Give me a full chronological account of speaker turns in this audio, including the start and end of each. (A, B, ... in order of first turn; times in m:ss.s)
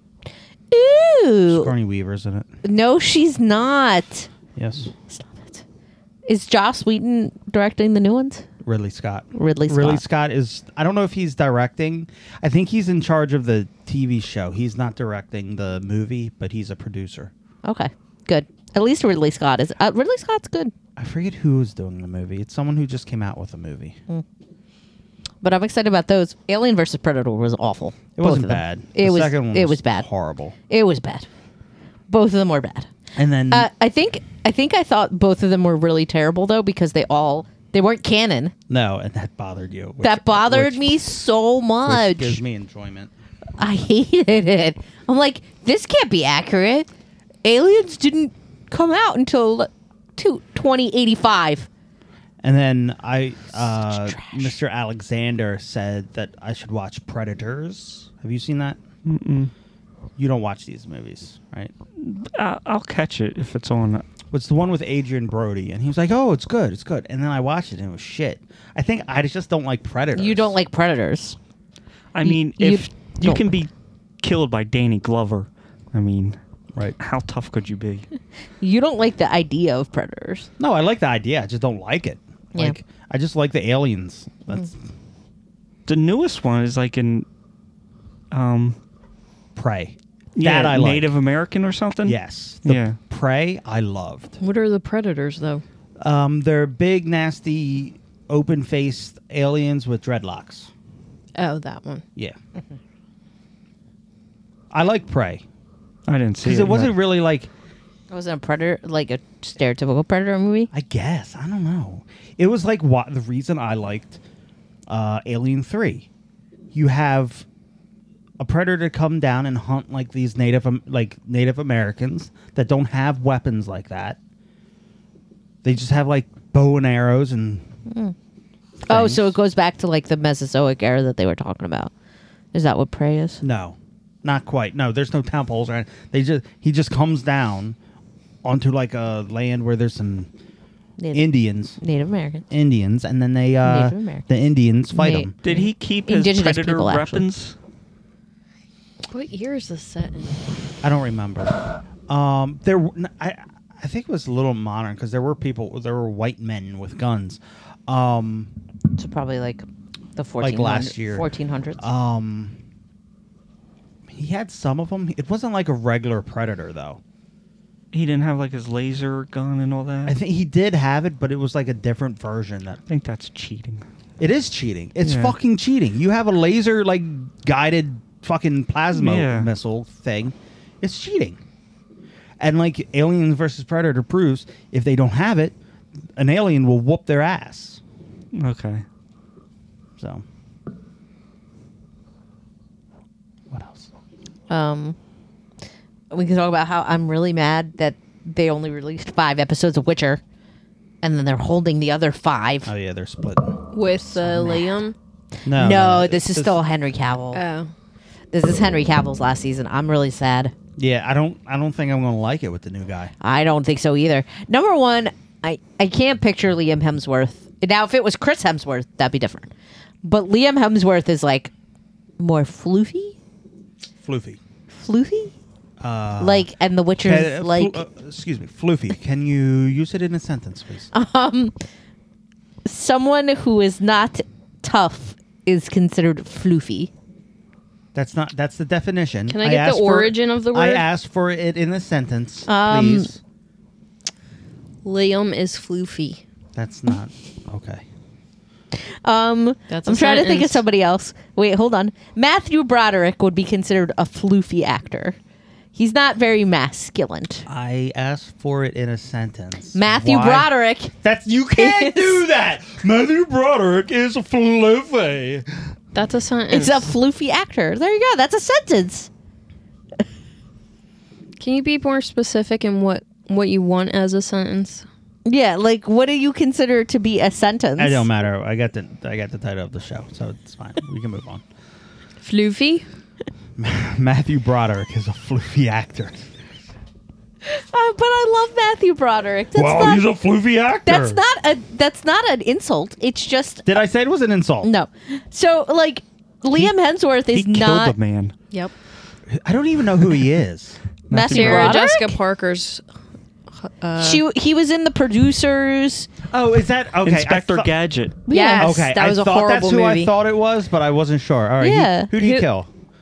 0:00.7-0:01.7 A
0:01.5-0:02.5 B
0:02.6-0:04.3 A
0:04.6-0:04.9 B
0:05.1-0:05.6 A
0:06.3-0:08.5 A
0:08.6-0:17.3 B
0:09.3-0:10.0 A
0:17.6-0:20.7 A
0:21.0-0:24.0 B
0:25.4-0:30.1 A
0:28.2-0:30.6 B
0:30.7-0:31.3 A
0:32.1-0:32.9 A
0:33.2-0:33.7 B
0:33.5-0:38.5 A
0:38.7-0:41.0 B
0:40.0-0:42.4 A
0:41.9-0:43.1 B
0:43.6-0:46.9 A
0:47.4-0:51.7 A
0:52.4-0:58.8 B
0:53.8-0:54.6 A
0:59.0-0:59.5 C
1:00.2-1:01.7 B
1:02.0-1:04.0 C
1:04.3-1:10.6 B
1:10.2-1:11.4 A
1:12.1-1:13.7 C
1:12.2-1:13.5 A
1:14.2-1:16.4 C
1:17.0-1:18.1 C
1:18.6-1:20.5 A
1:20.6-1:24.8 B
1:25.9-1:27.3 C
1:28.3-1:28.8 C
1:29.6-1:31.1 B
1:30.4-1:33.0 C
1:32.0-1:34.4 B
1:34.4-1:35.6 D
1:36.0-1:40.7 B
1:41.4-1:42.0 D
1:44.7-1:45.4 B
1:46.1-1:46.9 C
1:46.4-1:47.5 B
1:48.1-1:50.7 A
1:50.7-1:54.2 B
1:54.9-1:56.1 B
1:56.7-1:57.5 B
1:58.4-2:04.2 B
2:05.6-2:07.7 B
2:07.9-2:08.2 A
2:08.9-2:11.9 A
2:08.9-2:09.4 B
2:12.5-2:13.4 A
2:13.4-2:17.8 B
2:18.4-2:20.3 B
2:21.0-2:22.5 A
2:21.1-2:21.8 B
2:22.5-2:25.4 B
2:23.6-2:24.3 A
2:24.9-2:27.2 A
2:25.4-2:27.6 C
2:29.1-2:30.4 D
2:30.8-2:38.5 B
2:39.0-2:41.8 A
2:40.4-2:42.6 B
2:44.1-2:47.0 B
2:47.9-2:50.2 C
2:50.1-2:52.8 B
2:52.9-2:53.8 C
2:54.2-3:01.4 B
2:55.0-2:55.4 C
2:58.9-2:59.5 C
3:02.4-3:05.6 B
3:06.2-3:07.8 B
3:08.3-3:08.8 C
3:10.0-3:10.2 B
3:13.5-3:13.9 B
3:14.5-3:15.0 A
3:16.1-3:20.2 A
3:21.0-3:22.7 A
3:22.7-3:23.6 B
3:23.7-3:25.0 D
3:24.0-3:24.7 A
3:25.5-3:26.6 B
3:25.5-3:27.4 A
3:27.3-3:27.7 D
3:28.3-3:30.5 A
3:30.8-3:33.1 B
3:33.2-3:39.5 A
3:40.0-3:41.5 A
3:42.2-3:43.2 A
3:44.0-3:44.4 B
3:44.7-3:45.3 A
3:45.8-3:46.5 B
3:46.2-3:47.8 A
3:47.0-3:50.9 B
3:50.9-3:51.6 A
3:52.6-3:56.9 A
3:57.9-4:03.2 B
3:59.3-4:00.8 D
4:02.5-4:03.1 A
4:04.8-4:06.2 D
4:06.5-4:07.8 B
4:08.7-4:15.2 A
4:09.7-4:10.6 D
4:15.7-4:17.5 A
4:17.5-4:25.7 B
4:19.8-4:20.9 A
4:21.6-4:22.2 A
4:25.9-4:26.9 D
4:26.5-4:29.1 A
4:31.4-4:34.9 D
4:35.3-4:38.1 A
4:37.8-4:41.4 B
4:42.2-4:42.8 D
4:43.6-4:46.3 B
4:47.4-4:50.1 A
4:49.6-4:51.2 B
4:50.8-4:53.8 A
4:53.7-4:54.7 B
4:54.6-4:58.0 A
4:57.3-4:58.3 C
4:59.3-5:00.8 B
5:01.1-5:01.8 C
5:01.1-5:02.2 A
5:01.3-5:02.8 D
5:03.5-5:04.2 D
5:04.0-5:06.1 A
5:06.3-5:07.7 B
5:07.0-5:08.2 C
5:08.3-5:08.7 A
5:08.3-5:10.1 D
5:08.6-5:12.7 B
5:11.6-5:12.1 A
5:12.2-5:12.5 D